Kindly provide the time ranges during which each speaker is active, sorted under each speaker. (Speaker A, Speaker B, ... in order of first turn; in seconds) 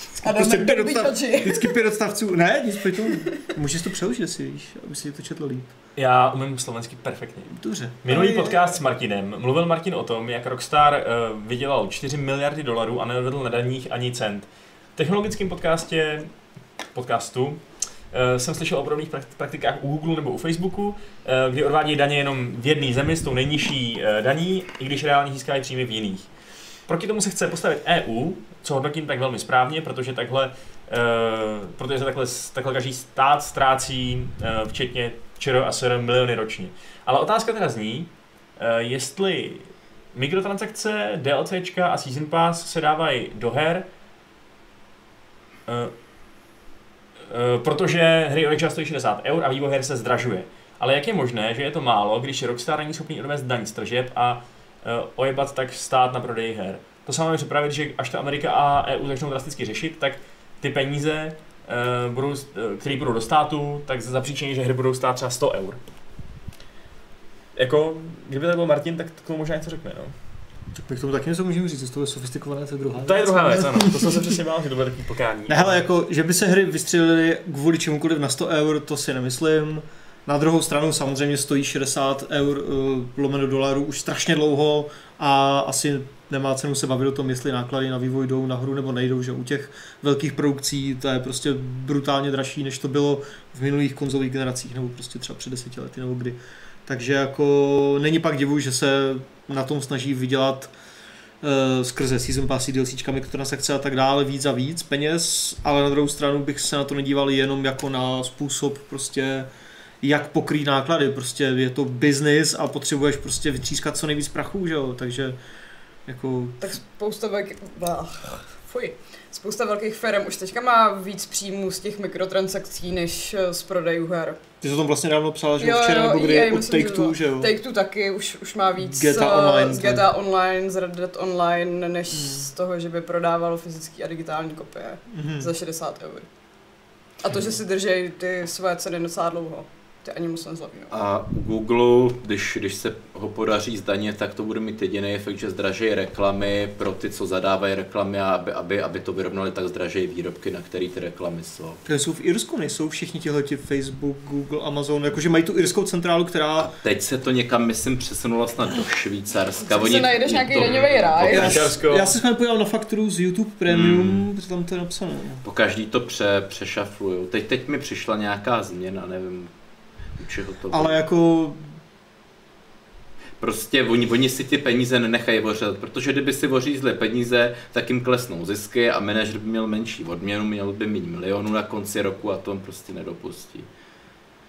Speaker A: 0.2-1.7, 8.1-8.6, 116.6-124.4, 125.6-136.3, 137.2-140.9, 159.7-161.7
Speaker B: 0.2-5.7, 7.5-8.0, 70.7-74.4, 75.5-100.7, 101.4-109.5, 110.0-115.4, 116.1-116.7, 124.6-127.5, 128.8-130.1, 132.1-132.5, 135.1-135.5, 151.8-156.7, 161.3-165.4, 170.7-171.6
Speaker C: 6.0-16.3, 16.9-26.3, 26.9-43.9, 45.7-45.9, 47.3-65.8, 67.5-70.1, 73.0-75.8, 160.5-162.1
Speaker D: 140.9-151.8, 156.6-161.8, 163.7-164.3, 165.4-169.5, 170.2-171.0, 173.4-183.7